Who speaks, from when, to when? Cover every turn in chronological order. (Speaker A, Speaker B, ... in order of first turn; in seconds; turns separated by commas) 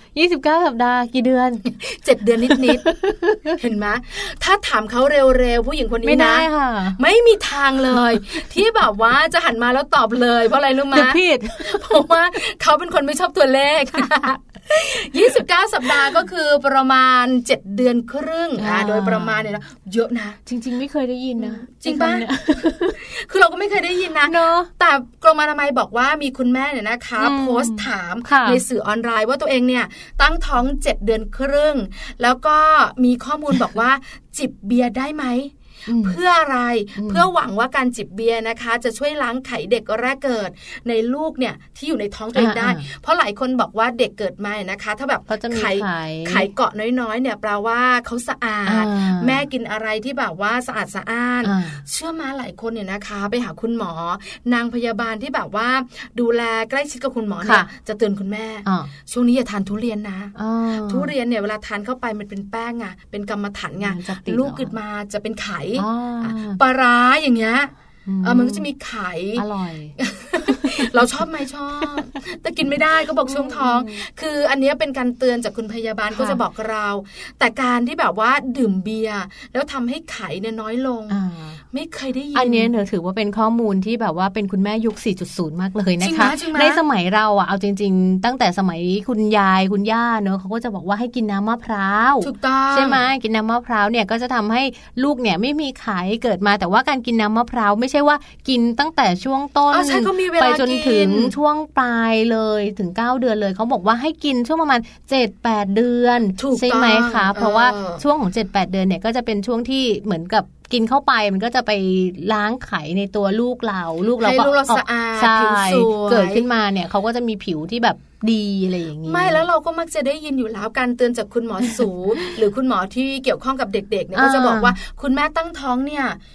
Speaker A: 0.1-1.6, Speaker B: 1.7-20.4, Speaker A: 2.9-3.5, Speaker A: 6.0-7.0, Speaker A: 7.9-8.4, Speaker A: 10.9-12.1, Speaker A: 18.6-19.4, Speaker A: 20.5-23.0, Speaker B: 21.4-60.3, Speaker A: 24.2-24.7, Speaker A: 27.2-28.6, Speaker A: 35.9-36.2, Speaker A: 37.0-37.2, Speaker A: 42.3-42.9, Speaker A: 45.3-46.5, Speaker A: 48.6-49.4, Speaker A: 51.4-51.8, Speaker A: 57.4-57.7, Speaker A: 58.6-58.9, Speaker A: 60.3-61.1, Speaker B: 60.9-67.7, Speaker A: 63.8-64.7, Speaker A: 65.8-66.6, Speaker A: 68.0-68.7, Speaker B: 68.2-69.4, Speaker A: 69.3-70.9, Speaker B: 70.0-81.2, Speaker A: 73.2-74.0, Speaker A: 76.1-76.4, Speaker A: 81.1-81.6, Speaker B: 81.7-82.7, Speaker A: 82.3-119.4, Speaker B: 86.0-86.8, Speaker B: 92.2-93.0, Speaker B: 99.7-101.3, Speaker B: 106.4-108.0, Speaker B: 114.2-116.4, Speaker B: 119.0-126.2, Speaker A: 124.1-124.7